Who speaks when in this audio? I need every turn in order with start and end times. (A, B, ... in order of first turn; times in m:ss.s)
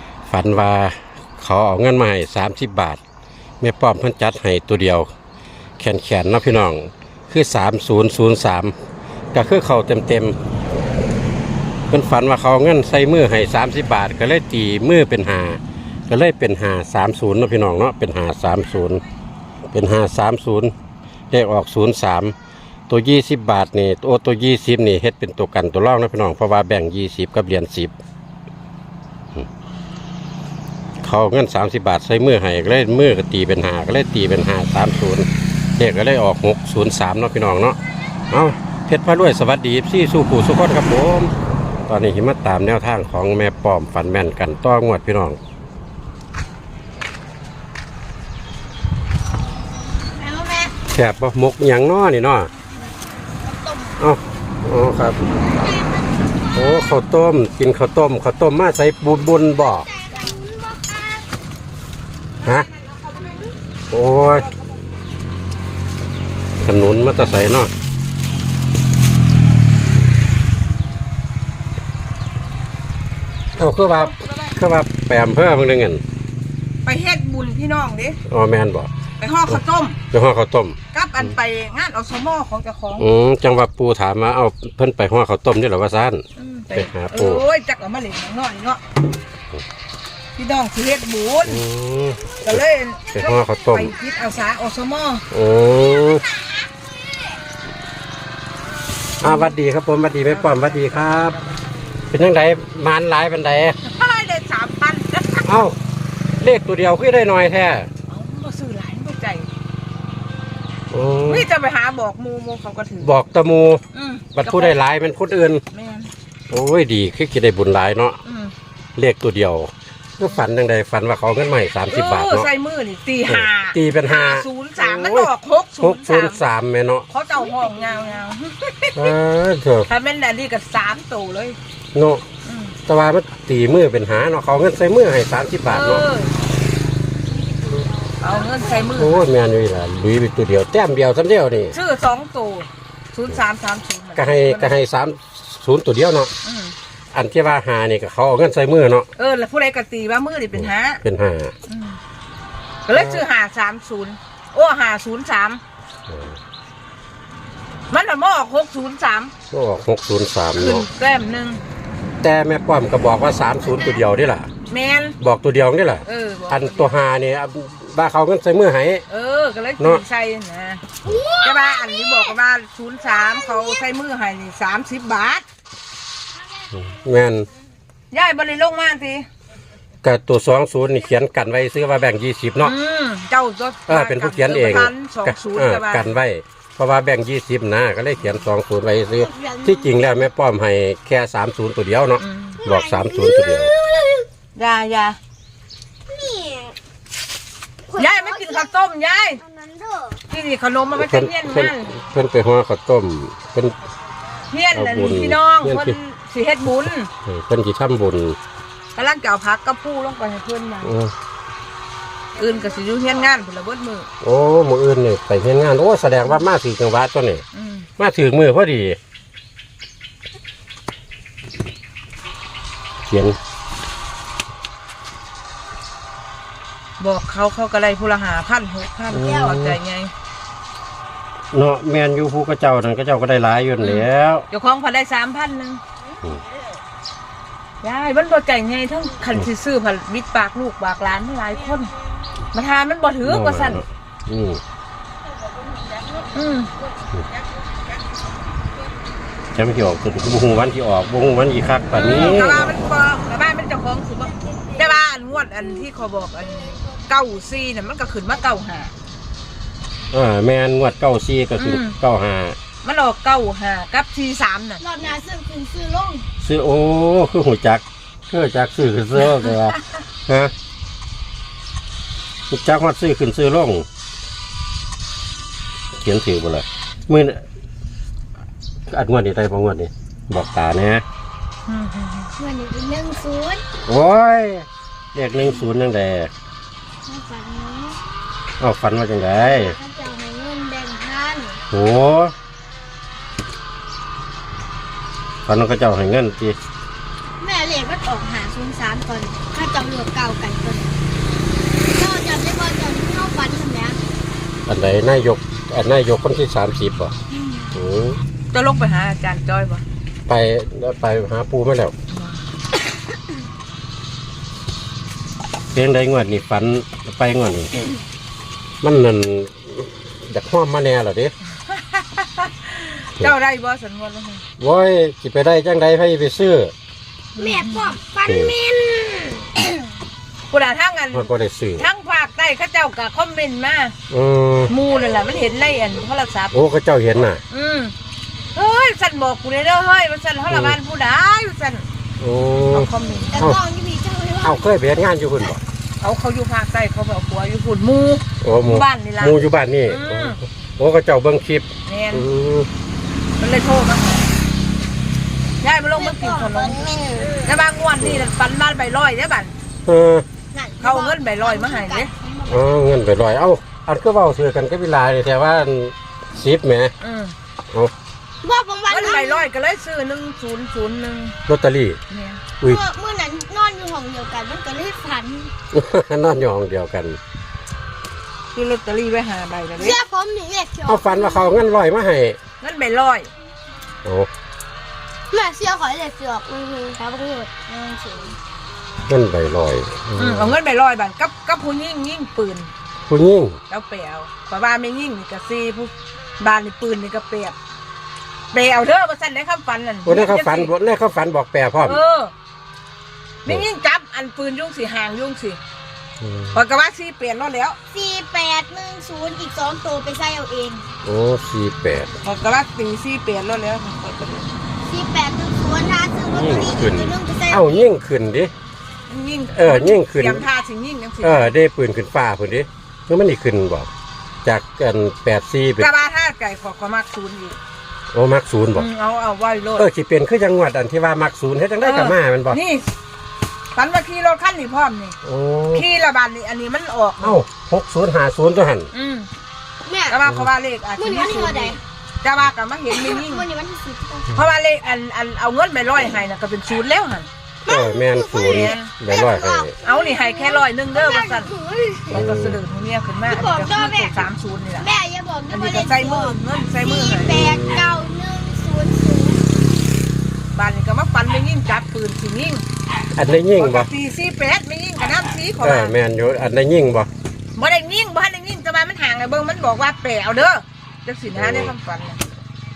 0:00.3-0:03.0 A
0:03.6-0:05.1 A
0:05.8-0:08.7 A
0:09.3-0:10.4 A
0:11.9-0:19.0 A
0:19.7-0:20.7 A
0:21.3-0:22.3 A
0:22.9-0:27.9 A
0:31.0-0:37.8 A
0:38.3-0:41.3 A
0:41.9-0:45.4 A
0:50.1-0:50.7 B
0:50.9-0:52.5 A
0:53.4-0:54.0 B
0:54.0-0:55.4 A
0:55.3-0:56.8 B
0:56.5-0:59.9 A
0:59.5-1:01.2 B
1:02.4-1:02.7 A
1:02.4-1:03.4 C
1:03.9-1:04.5 A
1:06.6-1:07.7 A
1:13.6-1:16.0 A
1:13.9-1:14.5 C
1:16.8-1:18.2 C
1:18.3-1:18.9 A
1:19.2-1:20.0 C
1:20.1-1:20.8 A
1:20.9-1:23.0 C
1:23.0-1:27.4 A
1:26.4-1:28.8 C
1:30.4-1:31.6 C
1:31.4-1:33.9 A
1:32.4-1:35.2 C
1:35.3-1:36.2 A
1:39.2-1:41.4 A
1:39.2-1:39.5 C
1:40.2-1:41.6 C
1:42.1-1:43.8 A
1:43.8-1:45.5 C
1:45.4-1:45.8 A
1:46.4-1:47.9 A
1:48.1-1:49.5 C
1:50.9-1:51.5 A
1:51.2-1:53.1 C
1:53.0-1:53.8 A
1:53.9-1:54.8 C
1:54.3-1:55.6 A
1:55.7-1:56.1 C
1:56.5-1:58.2 A
1:58.2-1:58.5 C
1:59.0-2:02.5 A
2:01.9-2:06.4 C
2:03.3-2:07.0 A
2:07.1-2:09.1 C
2:08.9-2:09.9 A
2:09.9-2:11.6 C
2:11.9-2:12.2 A
2:12.4-2:12.7 C
2:12.9-2:16.0 A
2:15.6-2:16.3 C
2:17.3-2:18.9 B
2:18.2-2:19.3 C
2:18.9-2:21.8 A
2:21.7-2:24.8 C
2:24.1-2:26.3 A
2:26.4-2:26.7 C
2:27.1-2:29.1 A
2:29.2-2:31.0 C
2:30.6-2:31.5 A
2:31.7-2:32.0 C
2:32.9-2:35.6 C
2:32.9-2:33.2 A
2:36.1-2:36.4 A
2:37.9-2:39.3 C
2:39.5-2:40.9 A
2:40.5-2:41.6 C
2:42.2-2:44.5 A
2:43.8-2:44.1 B
2:44.7-2:45.2 C
2:45.2-2:49.0 A
2:46.0-2:47.0 C
2:49.1-2:50.8 C
2:51.0-2:52.3 B
2:51.4-2:55.4 C
2:53.2-2:53.8 B
2:56.7-2:57.5 A
2:58.1-2:59.2 C
3:00.0-3:02.7 A
3:02.6-3:06.1 C
3:03.9-3:13.7 A
3:08.2-3:08.4 C
3:09.1-3:09.9 B
3:12.2-3:12.6 C
3:12.6-3:14.3 B
3:14.5-3:15.2 C
3:16.1-3:16.8 B
3:17.9-3:18.7 B
3:18.0-3:19.4 C
3:19.4-3:20.2 B
3:20.3-3:21.9 C
3:20.9-3:23.8 A
3:24.5-3:27.1 C
3:24.7-3:26.0 A
3:27.2-3:28.4 A
3:29.0-3:30.9 C
3:30.8-3:31.1 A
3:32.3-3:34.1 C
3:34.2-3:37.4 A
3:37.5-3:37.9 C
3:38.0-3:39.0 A
3:43.1-3:43.4 A
3:47.0-3:50.1 C
3:49.1-3:49.8 A
3:49.2-3:49.6 B
3:51.5-3:54.5 A
3:53.8-3:55.8 C
3:57.8-4:01.9 C
4:02.5-4:03.8 C
4:03.2-4:04.6 A
4:06.3-4:06.7 C
4:09.5-4:12.7 A
4:11.9-4:18.9 C
4:20.1-4:22.6 A
4:21.6-4:22.0 C
4:22.8-4:24.8 C
4:24.8-4:26.3 B
4:26.4-4:30.5 A
4:29.2-4:29.8 C
4:32.5-4:33.8 A
4:36.0-4:37.4 A
4:38.9-4:41.0 A
4:41.7-4:42.3 C
4:42.4-4:43.6 B
4:43.8-4:46.3 A
4:47.0-4:48.0 B
4:48.6-4:49.7 A
4:49.4-4:51.6 B
4:51.7-4:52.3 A
4:55.4-4:56.6 A
4:57.4-5:01.0 B
5:01.9-5:04.0 B
5:04.6-5:07.1 A
5:07.3-5:07.7 B
5:07.7-5:08.2 A
5:08.5-5:09.8 C
5:10.3-5:11.9 A
5:12.1-5:12.4 C
5:15.7-5:17.9 A
5:18.8-5:21.3 A
5:21.7-5:24.4 C
5:24.6-5:26.7 A
5:27.4-5:27.9 C
5:27.4-5:29.8 B
5:28.2-5:28.5 A
5:30.5-5:33.9 C
5:31.1-5:31.9 A
5:34.1-5:34.7 A
5:34.7-5:36.5 C
5:36.5-5:37.4 A
5:37.5-5:37.9 C
5:38.5-5:41.8 C
5:40.5-5:40.8 A
5:42.2-5:43.6 A
5:42.7-5:43.3 C
5:43.3-5:44.7 B
5:44.4-5:45.6 A
5:46.0-5:50.4 C
5:48.4-5:52.7 A
5:51.8-5:52.3 C
5:53.4-5:54.3 C
5:55.6-5:59.5 C
5:55.9-5:57.5 B
5:58.0-5:58.3 A
5:59.8-6:00.2 A
6:00.5-6:02.7 B
6:00.8-6:02.1 C
6:02.5-6:06.9 A
6:07.0-6:07.3 C
6:08.4-6:09.4 B
6:08.9-6:11.3 C
6:11.5-6:12.0 A
6:12.1-6:12.4 C
6:12.6-6:15.5 B
6:15.7-6:17.2 A
6:18.5-6:20.0 C
6:19.8-6:21.6 B
6:20.8-6:22.4 A
6:22.6-6:23.3 C
6:25.3-6:28.4 B
6:29.1-6:30.5 A
6:30.2-6:32.7 C
6:33.1-6:33.6 A
6:33.7-6:37.5 C
6:38.5-6:40.7 C
6:40.0-6:42.0 A
6:41.8-6:42.3 C
6:43.4-6:45.6 C
6:46.2-6:46.6 A
6:46.5-6:47.8 C
6:47.9-6:50.8 B
6:51.0-6:52.1 A
6:52.2-6:54.5 C
6:54.8-6:57.7 B
6:56.3-6:58.5 A
6:59.1-7:01.5 C
6:59.5-7:00.4 A
7:01.2-7:03.9 A
7:04.4-7:05.9 A
7:05.8-7:07.6 C
7:08.1-7:08.9 A
7:08.7-7:09.9 C
7:09.8-7:12.6 A
7:11.8-7:12.9 C
7:13.7-7:15.2 C
7:15.2-7:15.8 A
7:15.7-7:17.4 C
7:17.2-7:18.9 A
7:18.9-7:19.3 C
7:19.8-7:20.2 B
7:20.1-7:23.4 C
7:21.0-7:21.8 B
7:22.9-7:24.3 B
7:24.3-7:27.3 C
7:27.6-7:32.2 B
7:27.7-7:29.7 A
7:28.3-7:28.9 C
7:29.8-7:31.5 C
7:32.1-7:34.9 C
7:32.1-7:32.6 A
7:33.3-7:34.2 B
7:34.8-7:39.7 B
7:35.5-7:37.4 C
7:37.2-7:38.0 A
7:40.5-7:42.6 C
7:43.2-7:43.9 A
7:43.6-7:46.0 C
7:45.6-7:47.1 A
7:47.6-7:52.3 C
7:51.3-7:51.7 A